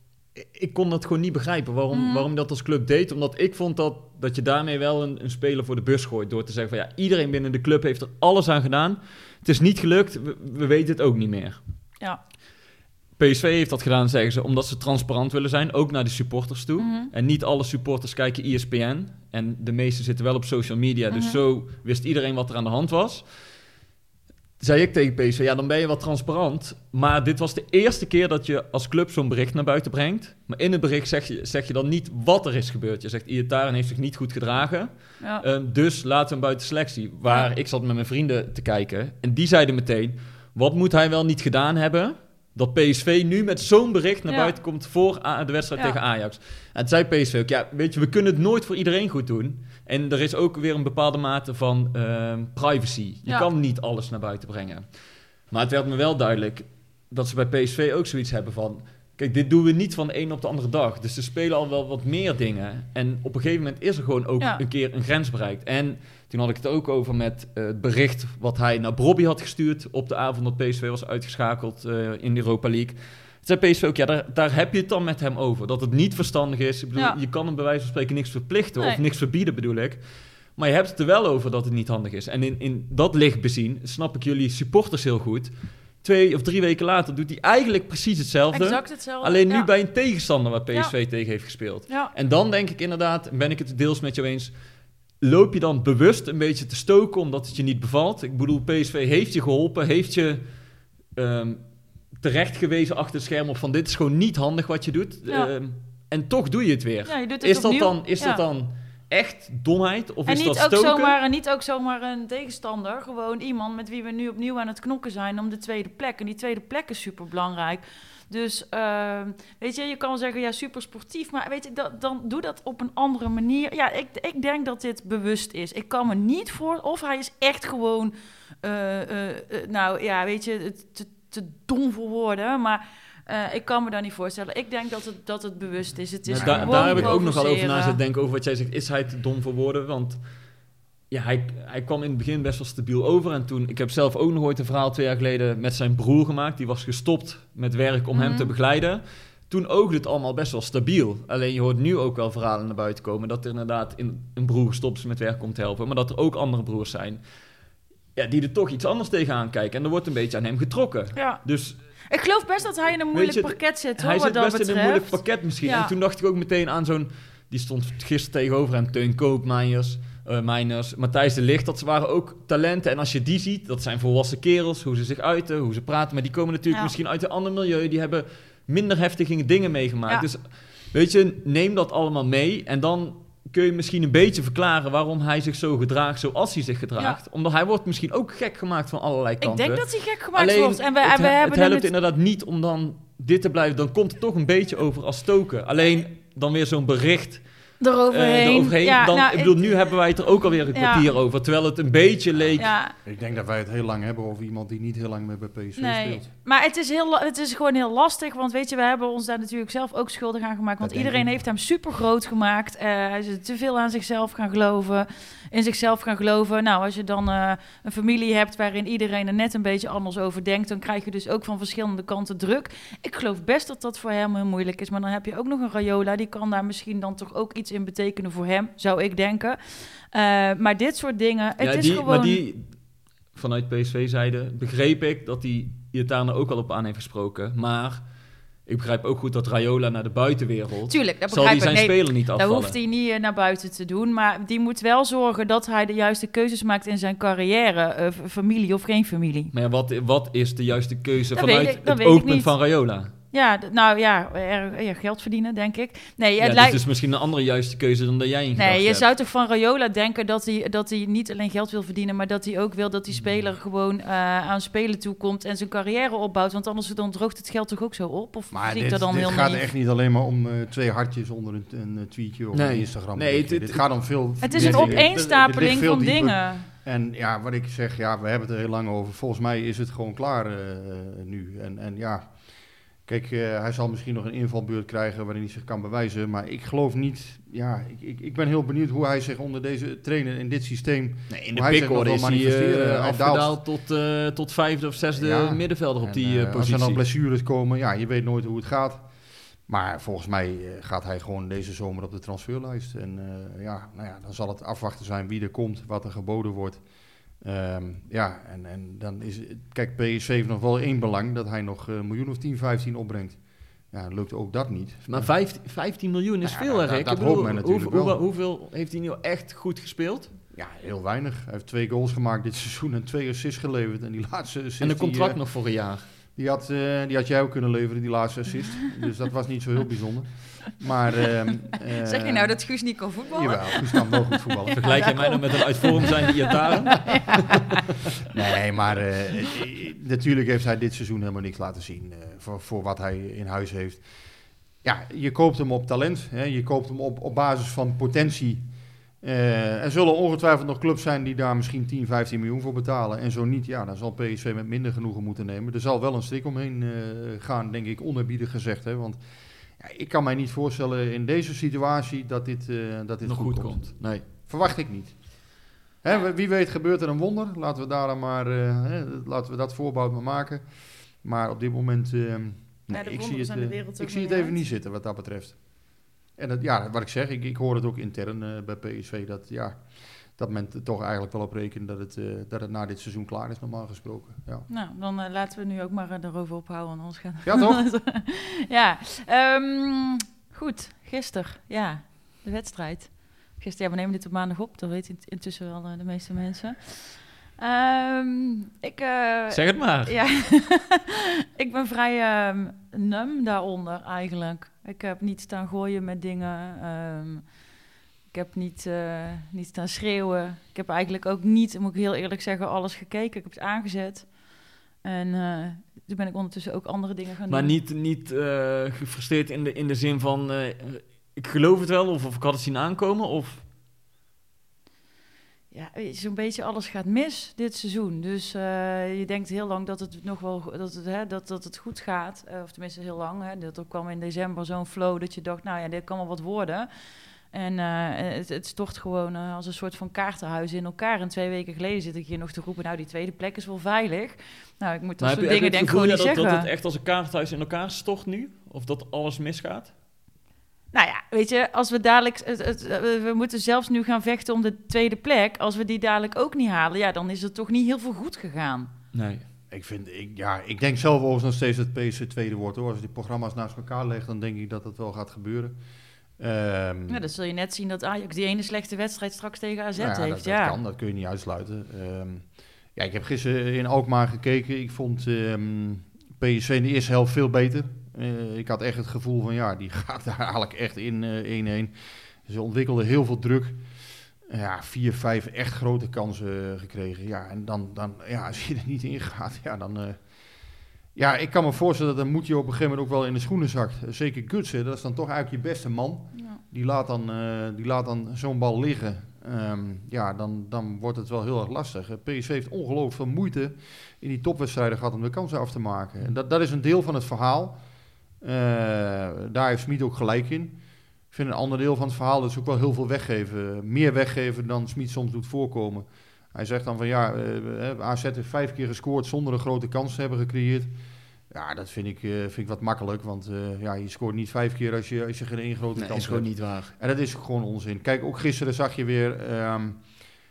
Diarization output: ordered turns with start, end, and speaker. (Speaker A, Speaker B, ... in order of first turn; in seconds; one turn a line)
Speaker A: 0.3-11.6
Speaker B: 1.9-2.3
Speaker A: 13.2-23.2
Speaker B: 16.8-17.1
Speaker B: 21.1-21.4
Speaker A: 24.6-54.9
Speaker B: 37.2-37.5
Speaker B: 44.3-44.5
Speaker A: 55.5-80.0
Speaker B: 78.8-79.0
Speaker A: 80.5-94.5
Speaker B: 88.5-89.7
Speaker A: 95.2-100.4
Speaker A: 101.2-101.6
Speaker A: 102.2-111.1
Speaker B: 107.0-108.4
Speaker B: 110.3-138.0
Speaker A: 136.3-140.2
Speaker C: 136.3-137.2
Speaker A: 141.1-157.2
Speaker B: 148.1-148.5
Speaker A: 158.2-161.8
Speaker B: 161.2-161.4
Speaker B: 162.1-165.9
Speaker A: 163.1-197.4
Speaker B: 189.4-191.9
Speaker B: 197.8-199.9
Speaker A: 198.1-202.7
Speaker B: 200.7-201.1
Speaker C: 202.4-206.3
Speaker B: 202.6-202.9
Speaker B: 205.8-232.4
Speaker C: 210.8-211.3
Speaker A: 231.6-232.7
Speaker A: 233.3-238.0
Speaker A: 238.7-242.8
Speaker B: 240.9-249.5
Speaker A: 249.5-253.1
Speaker B: 251.3-252.5
Speaker B: 253.3-256.8
Speaker A: 256.4-259.1
Speaker B: 258.6-269.6
Speaker A: 263.1-263.4
Speaker C: 268.5-282.3
Speaker A: 272.5-275.1
Speaker B: 274.4-276.7
Speaker C: 283.0-293.6
Speaker A: 291.3-297.0
Speaker C: 295.1-299.1
Speaker C: 299.7-306.8
Speaker C: 307.4-313.4
Speaker C: 313.9-315.3
Speaker A: 315.1-320.3
Speaker C: 316.4-318.2
Speaker C: 320.5-325.4
Speaker A: 324.8-326.0
Speaker C: 326.4-332.6
Speaker B: 331.9-337.8
Speaker C: 333.3-334.9
Speaker A: 334.8-337.6
Speaker C: 338.3-344.0
Speaker C: 344.8-348.7
Speaker C: 349.2-359.2
Speaker C: 359.8-370.7
Speaker A: 363.2-364.2
Speaker C: 371.2-375.8
Speaker B: 372.9-374.6
Speaker C: 376.3-384.6
Speaker B: 384.7-407.5
Speaker C: 387.4-387.8
Speaker A: 399.5-400.1
Speaker B: 408.3-414.3
Speaker B: 415.0-417.7
Speaker A: 417.5-423.6
Speaker B: 425.7-436.9
Speaker B: 437.5-446.7
Speaker A: 445.2-449.9
Speaker B: 450.9-458.9
Speaker A: 459.1-459.4
Speaker C: 459.7-465.8
Speaker C: 466.4-467.2
Speaker B: 467.1-470.8
Speaker C: 469.9-481.9
Speaker C: 482.4-483.8
Speaker C: 484.4-490.2
Speaker C: 491.1-507.8
Speaker C: 508.4-510.8
Speaker C: 511.3-520.9
Speaker C: 521.5-530.0
Speaker A: 526.0-526.9